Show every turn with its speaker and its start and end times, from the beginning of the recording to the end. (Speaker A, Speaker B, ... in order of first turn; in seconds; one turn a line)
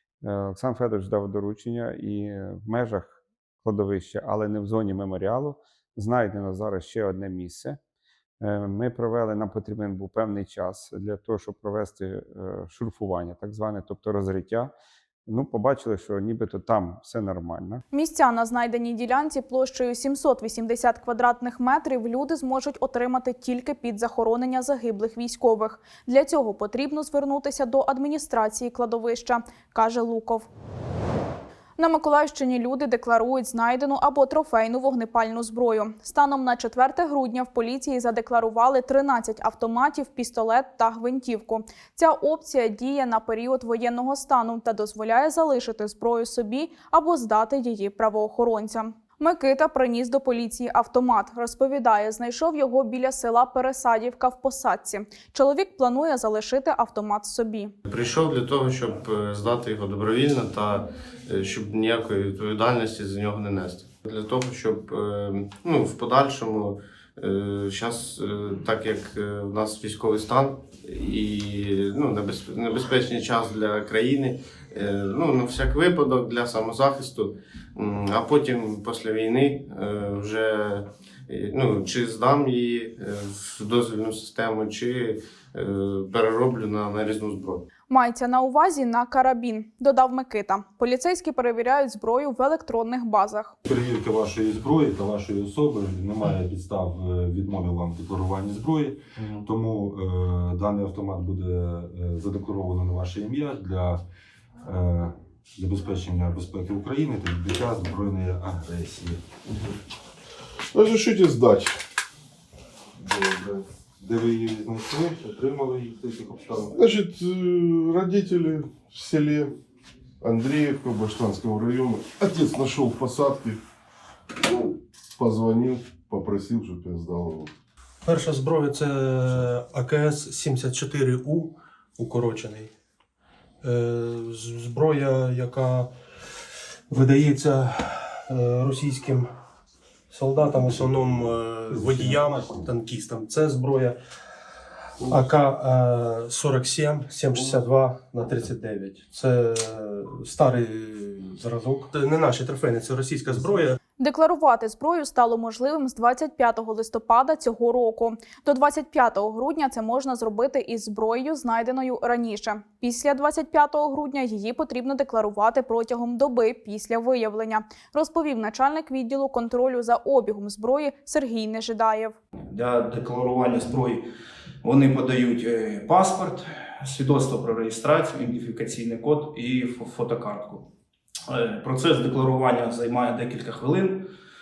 Speaker A: 0.2-7.8
Speaker A: 8.4-14.7
Speaker A: 15.3-17.8
Speaker B: 17.9-30.5
Speaker B: 31.8-57.8
Speaker C: 57.9-87.6
Speaker B: 87.9-93.6
Speaker D: 93.7-104.0
Speaker D: 104.6-109.2
Speaker E: 109.5-109.8
Speaker E: 110.7-111.8
Speaker D: 113.2-116.8
Speaker E: 116.7-119.5
Speaker E: 120.2-123.6
Speaker E: 124.5-127.5
Speaker F: 128.1-132.7
Speaker F: 133.6-135.9
Speaker F: 136.9-139.3
Speaker F: 140.1-144.0
Speaker D: 141.7-142.4
Speaker F: 145.1-153.8
Speaker B: 154.0-172.2
Speaker G: 172.5-174.1
Speaker G: 174.6-180.7
Speaker G: 181.3-184.1